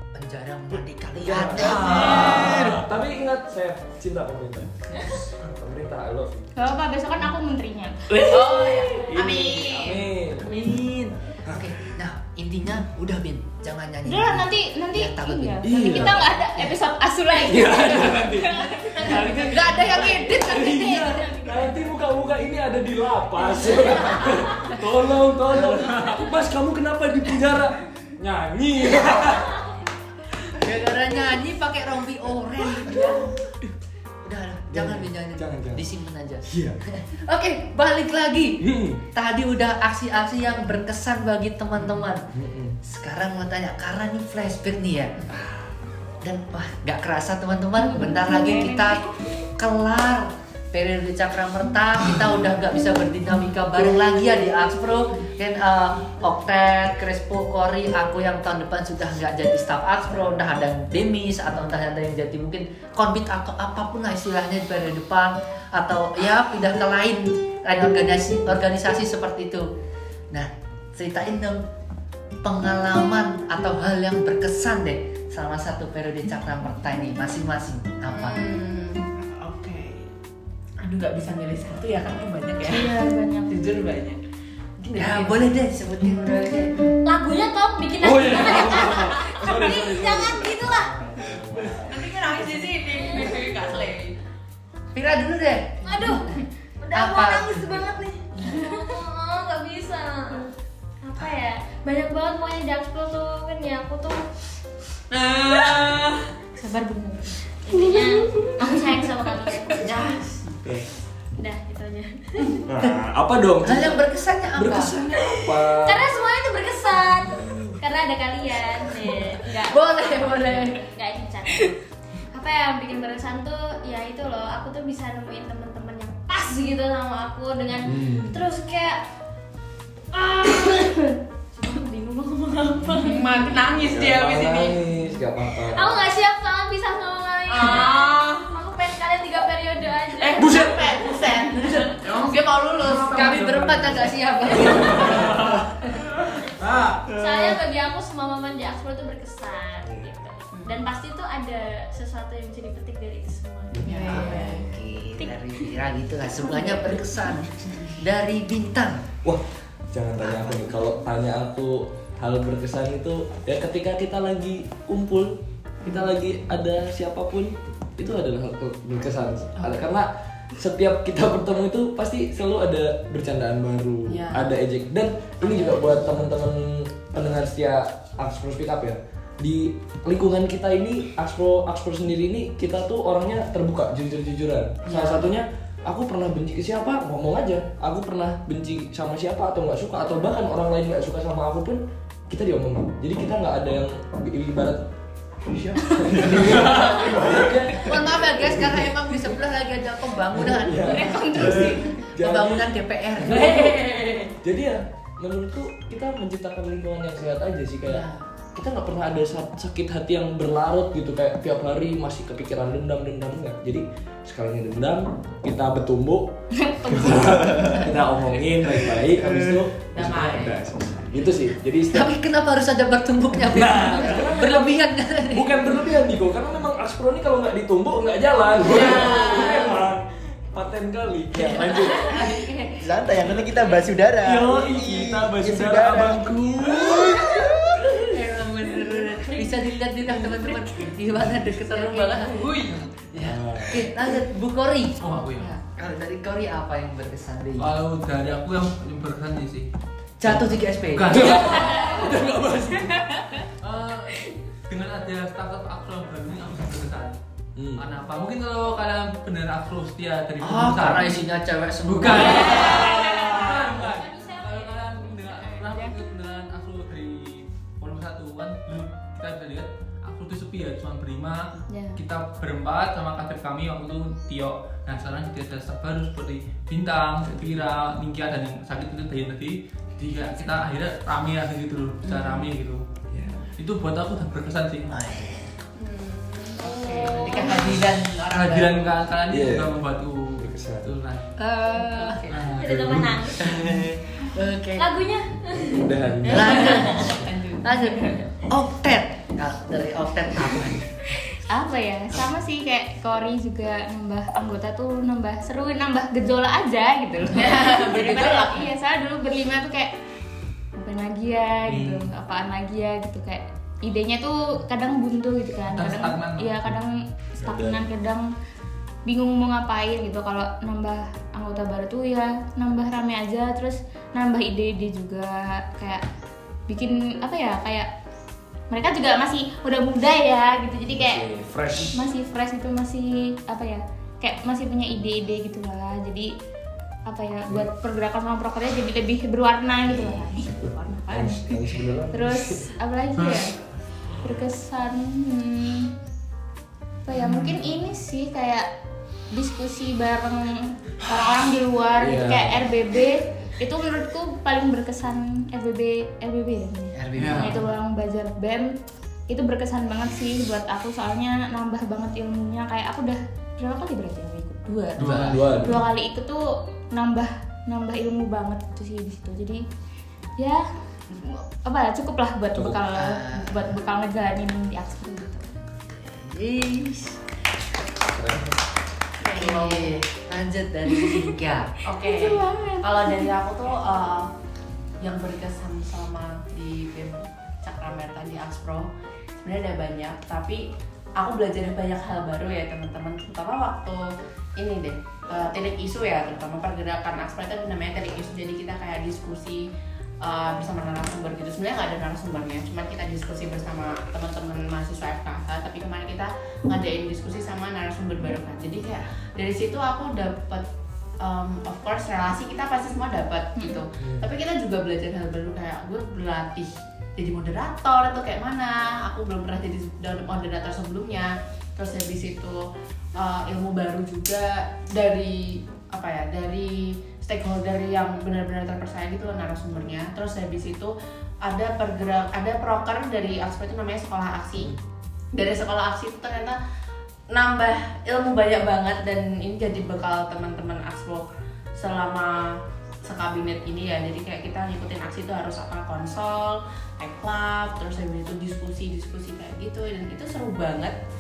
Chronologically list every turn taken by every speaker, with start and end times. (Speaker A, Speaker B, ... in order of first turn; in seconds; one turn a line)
Speaker A: 0.1-2.8
Speaker B: 1.2-6.5
Speaker C: 2.0-2.5
Speaker D: 6.6-8.3
Speaker B: 8.1-10.9
Speaker E: 8.2-10.1
Speaker A: 10.4-16.8
Speaker B: 11.4-11.7
Speaker D: 14.1-19.1
Speaker B: 15.6-16.3
Speaker B: 17.5-29.6
Speaker E: 18.7-19.6
Speaker A: 19.5-21.2
Speaker D: 19.8-21.7
Speaker E: 23.6-24.3
Speaker C: 25.9-26.1
Speaker A: 30.5-38.6
Speaker E: 32.9-33.3
Speaker B: 34.7-35.9
Speaker B: 36.5-36.8
Speaker B: 38.6-39.0
Speaker A: 39.1-42.3
Speaker B: 42.3-42.8
Speaker A: 42.8-45.2
Speaker B: 45.3-45.7
Speaker A: 46.2-69.7
Speaker D: 47.8-49.1
Speaker A: 70.3-71.6
Speaker A: 72.4-78.4
Speaker E: 78.1-80.1
Speaker E: 80.8-83.0
Speaker D: 82.6-83.6
Speaker E: 83.5-84.2
Speaker E: 84.8-85.6
Speaker A: 85.0-86.7
Speaker F: 87.0-91.3
Speaker B: 88.0-92.1
Speaker E: 91.8-94.2
Speaker F: 92.9-93.5
Speaker A: 94.9-95.8
Speaker F: 95.8-100.5
Speaker A: 96.9-97.7
Speaker F: 101.0-104.3
Speaker E: 105.1-106.3
Speaker D: 106.6-107.8
Speaker F: 107.7-110.0
Speaker D: 108.6-108.9
Speaker E: 109.7-110.6
Speaker F: 111.4-112.6
Speaker B: 112.7-114.0
Speaker A: 113.6-115.0
Speaker B: 114.5-116.1
Speaker F: 115.2-121.7
Speaker B: 117.4-117.8
Speaker A: 119.7-120.8
Speaker F: 122.3-129.0
Speaker B: 127.8-128.4
Speaker F: 130.1-133.5
Speaker E: 133.0-134.8
Speaker B: 133.8-136.1
Speaker F: 135.6-141.0
Speaker E: 137.5-138.5
Speaker E: 140.2-143.5
Speaker C: 142.0-142.3
Speaker C: 142.9-144.2
Speaker A: 143.0-145.6
Speaker E: 144.6-145.0
Speaker B: 144.7-145.6
Speaker C: 146.6-147.0
Speaker F: 147.1-154.5
Speaker G: 147.2-147.6
Speaker B: 149.8-150.2
Speaker E: 150.5-150.8
Speaker B: 153.7-154.0
Speaker E: 153.8-154.7
Speaker A: 154.1-159.0
Speaker D: 156.5-157.0
Speaker B: 159.9-194.8
Speaker E: 160.3-160.8
Speaker E: 165.8-166.2
Speaker E: 169.6-169.9
Speaker E: 174.1-174.5
Speaker E: 175.4-176.3
Speaker E: 184.8-185.3
Speaker B: 195.4-199.2
Speaker C: 196.6-197.0
Speaker A: 197.8-203.7
Speaker B: 200.3-203.8
Speaker D: 200.9-201.9
Speaker E: 203.2-204.3
Speaker B: 204.4-216.3
Speaker E: 207.8-208.2
Speaker D: 216.6-217.9
Speaker B: 216.8-222.2
Speaker G: 218.7-219.6
Speaker E: 219.9-220.7
Speaker A: 221.9-225.5
Speaker B: 223.4-232.4
Speaker E: 228.6-229.8
Speaker E: 231.7-232.2
Speaker A: 232.0-232.8
Speaker G: 232.8-237.9
Speaker B: 234.2-237.9
Speaker A: 237.9-242.4
Speaker E: 241.6-243.2
Speaker A: 243.2-245.0
Speaker B: 243.2-243.9
Speaker C: 245.0-245.5
Speaker A: 245.7-247.8
Speaker C: 247.6-249.7
Speaker A: 250.2-251.3
Speaker C: 250.9-252.2
Speaker B: 251.1-253.3
Speaker C: 253.6-257.2
Speaker B: 257.6-257.9
Speaker C: 257.8-261.3
Speaker A: 260.4-262.9
Speaker C: 261.9-282.8
Speaker F: 262.2-265.9
Speaker B: 262.9-263.4
Speaker D: 271.7-272.0
Speaker E: 282.1-282.5
Speaker B: 283.1-283.5
Speaker C: 283.6-284.9
Speaker A: 284.9-285.5
Speaker E: 285.8-288.9
Speaker F: 286.6-287.6
Speaker A: 287.3-288.2
Speaker C: 288.3-291.3
Speaker B: 289.3-289.8
Speaker B: 290.4-290.9
Speaker A: 291.4-292.2
Speaker E: 291.7-292.5
Speaker C: 292.3-293.3
Speaker F: 292.6-293.5
Speaker A: 293.4-294.9
Speaker F: 294.8-295.9
Speaker B: 295.6-296.7
Speaker E: 296.3-297.7
Speaker A: 296.3-301.1
Speaker F: 296.6-297.0
Speaker D: 301.5-309.9
Speaker E: 307.3-308.7
Speaker D: 310.8-318.3
Speaker B: 311.7-312.0
Speaker C: 315.6-316.8
Speaker B: 317.4-317.8
Speaker D: 319.1-326.0
Speaker D: 326.7-327.9
Speaker D: 328.7-331.2
Speaker B: 330.9-332.0
Speaker D: 331.9-336.3
Speaker D: 337.1-340.6
Speaker B: 339.9-342.7
Speaker E: 340.6-341.7
Speaker D: 342.1-343.5
Speaker C: 343.2-343.5
Speaker D: 344.2-345.9
Speaker D: 347.1-348.7
Speaker D: 349.3-358.7
Speaker B: 352.0-352.7
Speaker A: 356.9-357.6
Speaker C: 357.2-357.6
Speaker D: 359.3-369.6
Speaker C: 365.0-365.4
Speaker A: 365.0-365.3
Speaker B: 365.0-365.8
Speaker D: 370.4-370.7
Speaker D: 371.2-375.5
Speaker B: 372.6-372.8
Speaker A: 372.9-373.7
Speaker A: 376.0-377.2
Speaker B: 378.1-378.6
Speaker E: 379.2-380.0
Speaker A: 379.3-381.7
Speaker E: 381.9-384.3
Speaker D: 382.0-383.3
Speaker E: 385.0-388.9
Speaker E: 389.4-390.6
Speaker E: 391.2-394.1
Speaker E: 394.6-399.7
Speaker E: 400.2-410.7
Speaker E: 411.2-422.6
Speaker D: 413.6-413.8
Speaker B: 414.0-414.3
Speaker E: 423.2-434.8
Speaker E: 435.3-436.6
Speaker E: 437.3-451.0